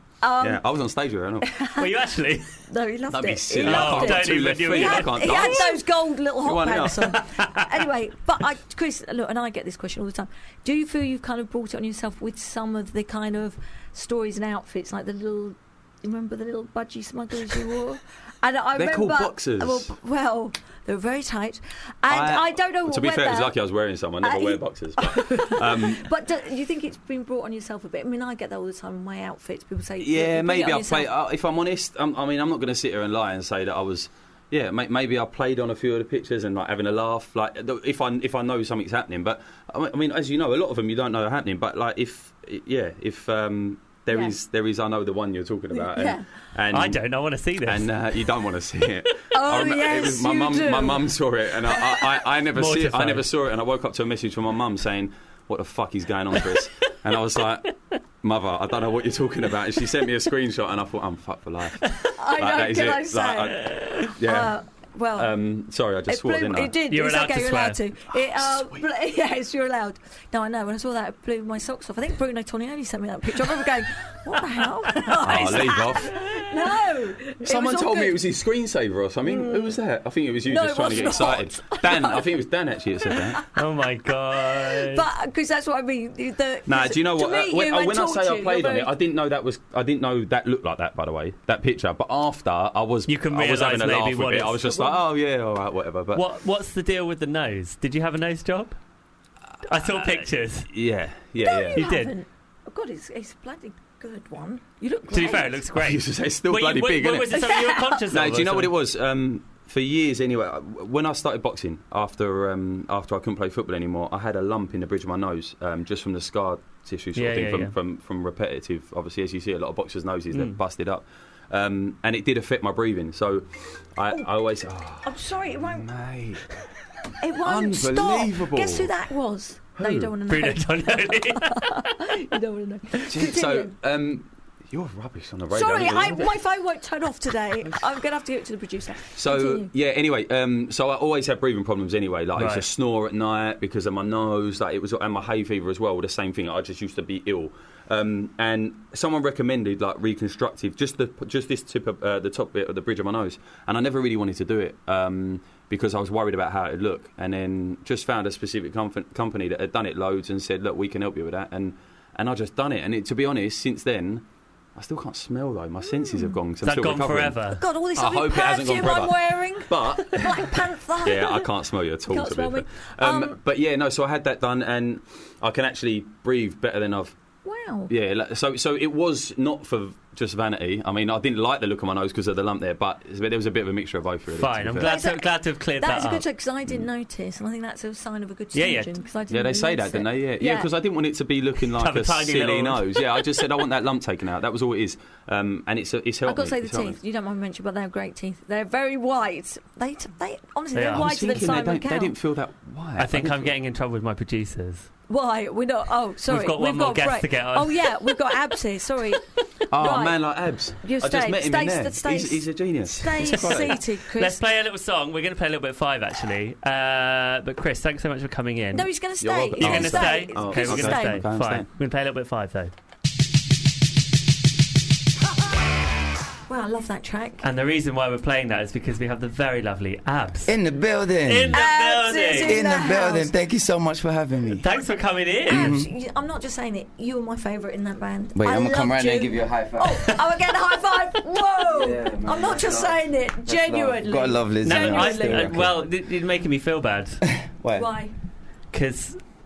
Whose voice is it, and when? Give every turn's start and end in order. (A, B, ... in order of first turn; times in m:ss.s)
0:00.2-0:00.6 A
0:00.4-0:01.5 B
0:01.4-0:01.9 A
0:01.8-0:02.5 C
0:02.7-0:23.5 A
0:03.1-0:05.8 B
0:03.6-0:05.6 C
0:06.4-0:07.1 B
0:07.2-0:07.6 C
0:18.8-0:19.9 B
0:22.1-0:26.1 B
0:24.2-0:31.1 A
0:30.0-0:47.0 B
0:44.1-0:44.4 A
0:45.8-0:46.3 A
0:46.7-0:47.9 C
0:47.6-1:04.5 B
0:49.3-0:51.1 A
0:52.5-0:53.3 C
1:02.2-1:05.3 A
1:05.2-1:06.7 B
1:06.1-1:18.2 A
1:06.9-1:07.8 C
1:08.1-1:08.8 B
1:15.2-1:16.2 B
1:17.4-1:23.4 B
1:19.2-1:19.8 A
1:20.5-1:22.3 A
1:23.6-1:25.0 C
1:24.3-1:28.9 A
1:26.7-1:36.2 B
1:33.1-1:34.6 C
1:36.2-1:38.8 C
1:39.7-1:40.7 C
1:39.8-1:41.9 B
1:41.4-1:45.6 A
1:41.8-1:42.1 C
1:45.1-1:48.7 C
1:45.7-1:47.5 B
1:47.4-1:48.0 A
1:48.1-2:06.5 B
1:57.2-1:57.7 C
2:05.0-2:05.9 A
2:07.2-2:13.7 A
2:07.4-2:08.9 B
2:09.8-2:10.1 B
2:10.3-2:11.8 C
2:13.1-2:16.3 B
2:15.5-2:19.7 A
2:19.2-2:44.2 B
2:22.4-2:22.6 C
2:44.8-2:47.4 B
2:46.1-2:46.4 A
2:46.6-2:47.6 C
2:47.6-2:51.5 A
2:48.0-2:57.2 B
2:52.1-2:53.4 A
2:57.4-2:57.9 A
2:57.9-3:04.9 B
3:04.4-3:06.2 C
3:04.8-3:10.7 A
3:08.5-3:08.9 C
3:09.3-3:17.0 B
3:11.8-3:13.2 C
3:16.3-3:22.1 A
3:20.8-3:21.1 C
3:20.9-3:23.6 B
3:23.0-3:24.9 C
3:25.1-3:29.2 A
3:26.3-3:28.2 C
3:29.7-3:33.8 B
3:29.8-3:30.2 A
3:30.8-3:34.4 A
3:33.2-3:38.9 C
3:38.7-3:41.2 A
3:39.2-3:41.7 B
3:39.6-3:42.7 C
3:46.5-3:47.5 A
3:47.4-3:50.6 C
3:50.5-3:51.6 D
3:51.3-3:52.6 C
3:51.5-3:53.3 A
3:52.3-3:54.7 D
3:54.6-3:55.8 C
3:55.5-4:05.6 A
3:55.5-3:55.9 D
3:58.4-4:00.1 D
4:01.7-4:05.8 D
4:04.6-4:07.2 C
4:07.6-4:07.9 D
4:07.8-4:08.1 A
4:08.7-4:09.2 C